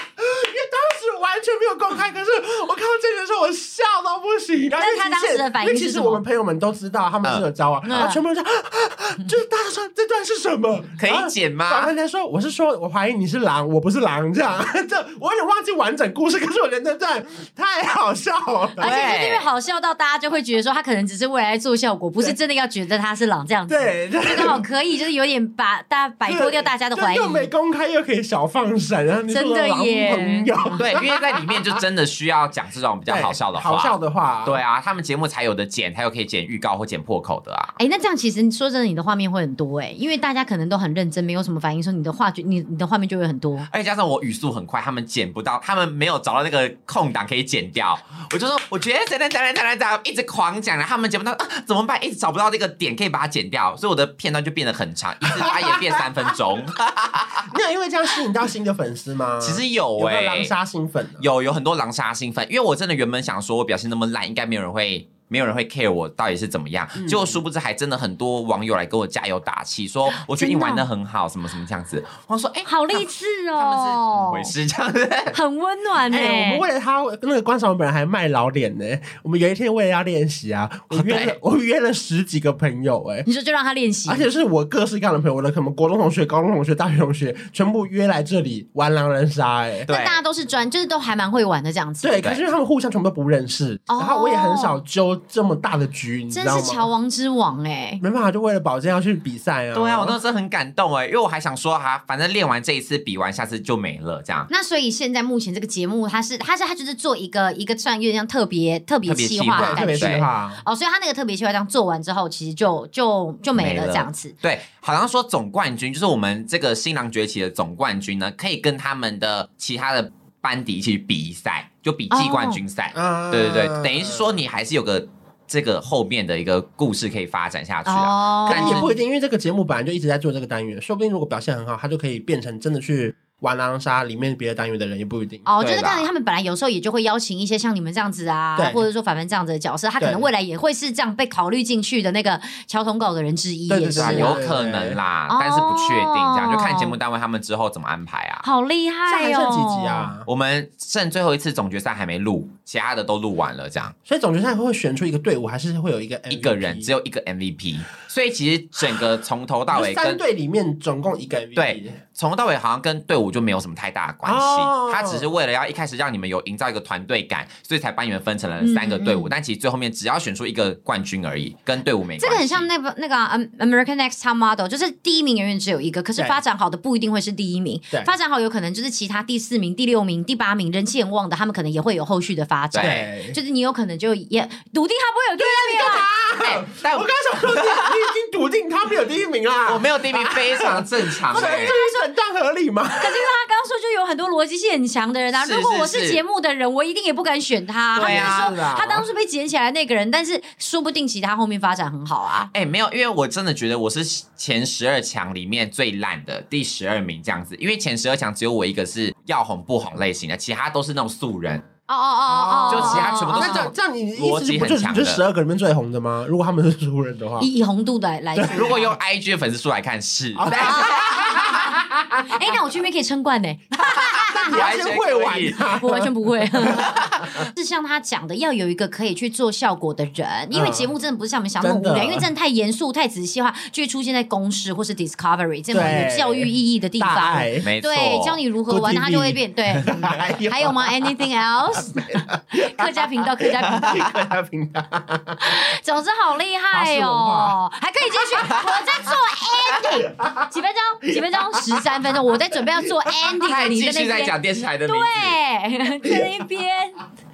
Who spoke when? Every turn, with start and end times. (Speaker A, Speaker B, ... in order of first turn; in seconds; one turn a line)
Speaker A: 0.2-18.9
Speaker B: 4.7-6.2
Speaker B: 7.8-8.2
Speaker C: 11.0-11.9
Speaker C: 18.8-19.4
Speaker B: 18.8-27.5
Speaker A: 23.7-24.7
Speaker A: 26.2-31.5
Speaker B: 29.3-30.7
Speaker C: 30.8-37.7
Speaker A: 33.1-34.6
Speaker B: 37.8-43.7
Speaker C: 43.7-57.5
Speaker A: 55.7-56.0
Speaker A: 57.5-61.3
Speaker C: 59.4-60.5
Speaker C: 61.2-75.4
Speaker A: 66.9-67.4
Speaker B: 70.1-70.9
Speaker B: 72.6-74.5
Speaker B: 75.3-76.6
Speaker A: 76.1-83.3
Speaker C: 80.9-81.4
Speaker B: 83.2-84.3
Speaker A: 84.0-89.9
Speaker B: 89.8-92.2
Speaker C: 89.9-90.2
Speaker A: 92.0-96.9
Speaker B: 93.9-94.8
Speaker B: 96.3-98.0
Speaker A: 98.0-100.2
Speaker C: 99.7-104.5
Speaker B: 104.5-114.3
Speaker C: 109.0-110.2
Speaker A: 109.5-110.6
Speaker C: 113.5-128.9
Speaker B: 122.1-122.6
Speaker A: 122.9-124.4
Speaker B: 127.8-128.9
Speaker A: 128.4-135.5
Speaker B: 135.4-144.4
Speaker C: 135.6-136.1
Speaker A: 138.6-138.9
Speaker A: 140.0-140.3
Speaker A: 143.7-145.0
Speaker C: 143.9-148.4
Speaker B: 145.3-146.9
Speaker B: 148.4-150.1
Speaker A: 149.0-150.2
Speaker C: 150.2-153.9
Speaker A: 154.1-156.9
Speaker C: 156.3-160.2
Speaker A: 159.7-162.0
Speaker C: 161.5-172.7
Speaker A: 164.2-165.3
Speaker B: 168.6-169.3
Speaker B: 172.2-186.1
Speaker C: 182.7-183.0
Speaker A: 182.8-183.4
Speaker A: 185.4-193.3
Speaker C: 186.4-187.9
Speaker C: 189.6-191.8
Speaker B: 191.3-192.0
Speaker B: 193.0-202.5
Speaker C: 195.3-196.2
Speaker C: 197.9-198.5
Speaker A: 197.9-199.1
Speaker C: 202.5-211.7
Speaker B: 211.9-213.7
Speaker A: 212.3-217.5
Speaker C: 212.7-215.2
Speaker B: 217.4-218.9
Speaker A: 218.3-218.7
Speaker C: 218.4-221.4
Speaker A: 220.3-222.2
Speaker B: 220.5-244.1
Speaker C: 223.8-225.7
Speaker A: 223.9-227.3
Speaker C: 226.6-227.5
Speaker A: 230.5-230.9
Speaker A: 231.6-232.3
Speaker A: 235.7-237.7
Speaker C: 237.6-238.4
Speaker A: 238.7-241.2
Speaker A: 241.7-245.5
Speaker B: 245.4-257.1
Speaker A: 246.7-247.6
Speaker C: 248.4-248.9
Speaker A: 249.9-250.5
Speaker A: 251.3-252.1
Speaker A: 252.8-253.2
Speaker C: 253.4-255.4